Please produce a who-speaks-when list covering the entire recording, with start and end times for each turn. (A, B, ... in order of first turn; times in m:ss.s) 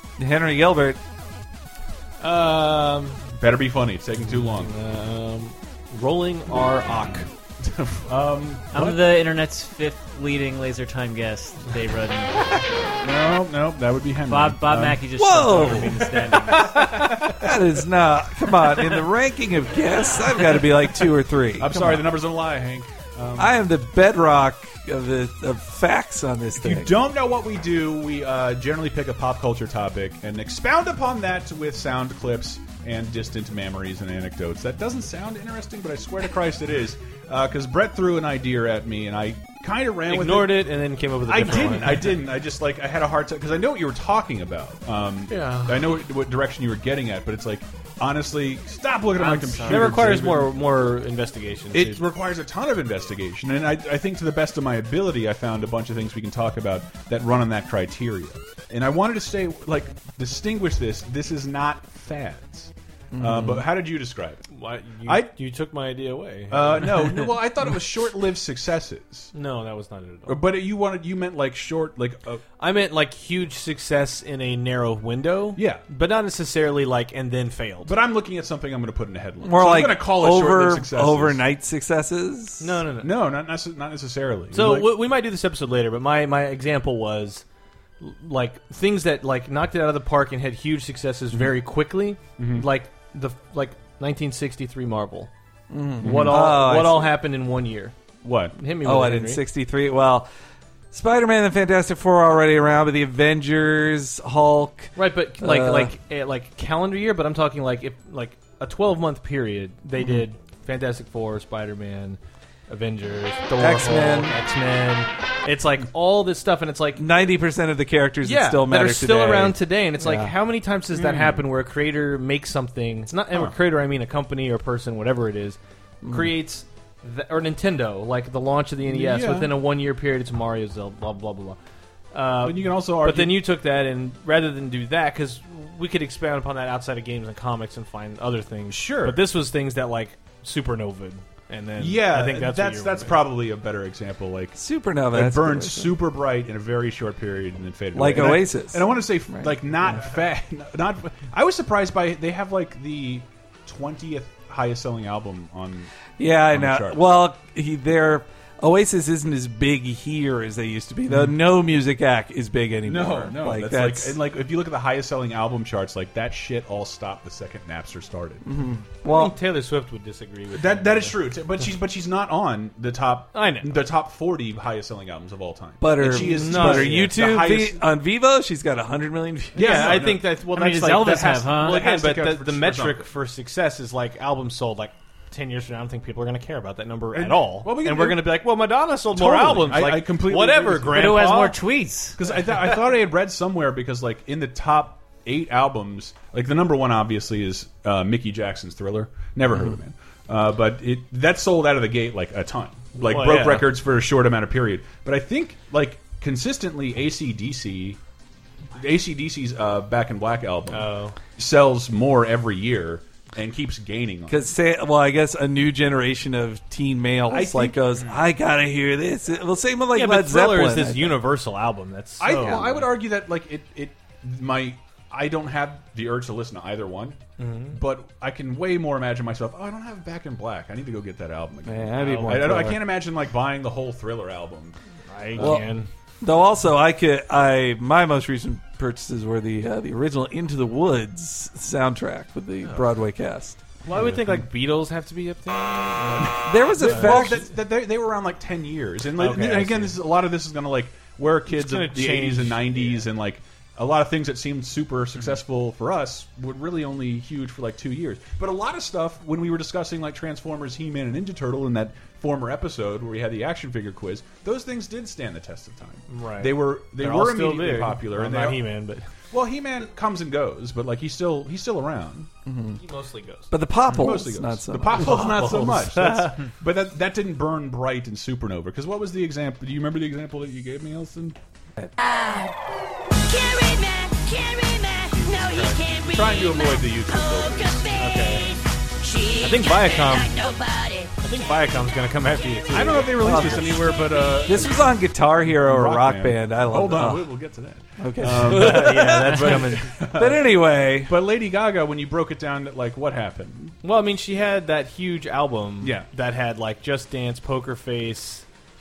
0:00.2-0:01.0 A
0:02.2-0:03.2 B
0:03.4-0:04.7 C
0:04.3-0:07.3 B
0:07.6-0:09.0 C
0:08.7-0:12.5 D
0:13.0-0:17.6 C
0:14.3-0:17.1 D
0:15.2-0:22.2 A
0:21.6-0:23.6 C
0:23.4-0:27.0 A
0:26.6-0:40.7 C
0:40.1-0:42.2 B
0:41.3-0:50.5 C
0:45.3-0:45.9 B
0:49.2-0:50.2 D
0:49.6-0:52.1 B
0:51.7-1:04.5 C
1:03.1-1:03.7 A
1:04.5-1:07.2 B
1:05.0-1:05.3 C
1:06.5-1:09.3 C
1:09.3-1:10.4 B
1:10.3-1:12.4 C
1:12.6-1:17.9 B
1:15.6-1:15.8 C
1:17.8-1:21.4 C
1:19.4-1:22.8 A
1:22.6-1:23.1 B
1:23.0-1:25.0 C
1:24.5-1:27.4 B
1:28.0-1:35.3 B
1:32.4-1:32.7 C
1:35.7-1:37.2 A
1:36.0-1:38.0 B
1:36.0-1:36.6 C
1:38.2-1:38.6 C
1:38.5-1:39.4 B
1:38.8-1:40.3 A
1:40.9-1:45.9 A
1:45.0-1:57.0 B
1:53.6-1:54.4 A
1:57.0-2:00.4 A
1:58.2-2:11.6 B
2:01.0-2:01.4 C
2:06.0-2:06.3 A
2:08.9-2:09.5 C
2:12.1-2:23.2 B
2:12.4-2:13.4 C
2:18.7-2:19.2 C
2:21.8-2:24.6 C
2:24.6-2:26.0 A
2:25.1-2:35.9 C
2:27.9-2:30.1 A
2:36.2-2:44.2 A
2:36.5-2:37.0 C
2:42.8-2:48.5 C
2:48.4-2:49.4 A
2:49.0-2:51.2 B
2:50.5-2:57.8 C
2:53.3-2:53.8 B
2:55.8-3:00.0 A
2:56.0-2:57.2 B
2:59.6-3:03.1 C
2:59.6-3:11.6 B
3:00.5-3:01.8 D
3:07.1-3:08.5 C
3:09.1-3:11.2 C
3:10.9-3:12.2 D
3:12.2-3:28.0 C
3:23.0-3:23.7 B
3:28.7-3:34.5 C
3:30.7-3:31.2 B
3:34.3-3:41.2 A
3:37.3-3:38.2 C
3:39.9-3:42.9 B
3:42.2-3:47.2 C
3:47.4-3:47.8 B
3:47.7-3:54.8 C
3:51.6-3:52.9 A
3:55.1-3:55.9 B
3:55.3-3:55.6 C
3:55.4-4:03.6 A
4:03.8-4:07.2 B
4:06.2-4:28.7 C
4:06.2-4:07.5 A
4:09.2-4:10.0 B
4:11.5-4:13.0 B
4:26.1-4:29.1 B
4:29.3-4:32.3 C
4:32.4-4:32.8 A
4:32.8-4:33.5 B
4:33.5-4:35.4 A
4:33.9-4:41.4 C
4:34.9-4:36.4 B
4:42.0-4:42.5 E
4:43.2-4:51.1 E
4:45.3-4:45.8 B
4:46.0-4:48.0 C
4:48.0-4:48.5 B
4:49.4-4:50.3 B
4:51.2-4:53.7 B
4:52.7-5:03.8 C
4:53.2-4:53.7 A
4:54.4-4:57.4 A
4:58.0-5:01.2 A
4:58.2-4:59.9 B
5:03.8-5:08.4 B
5:05.8-5:06.1 C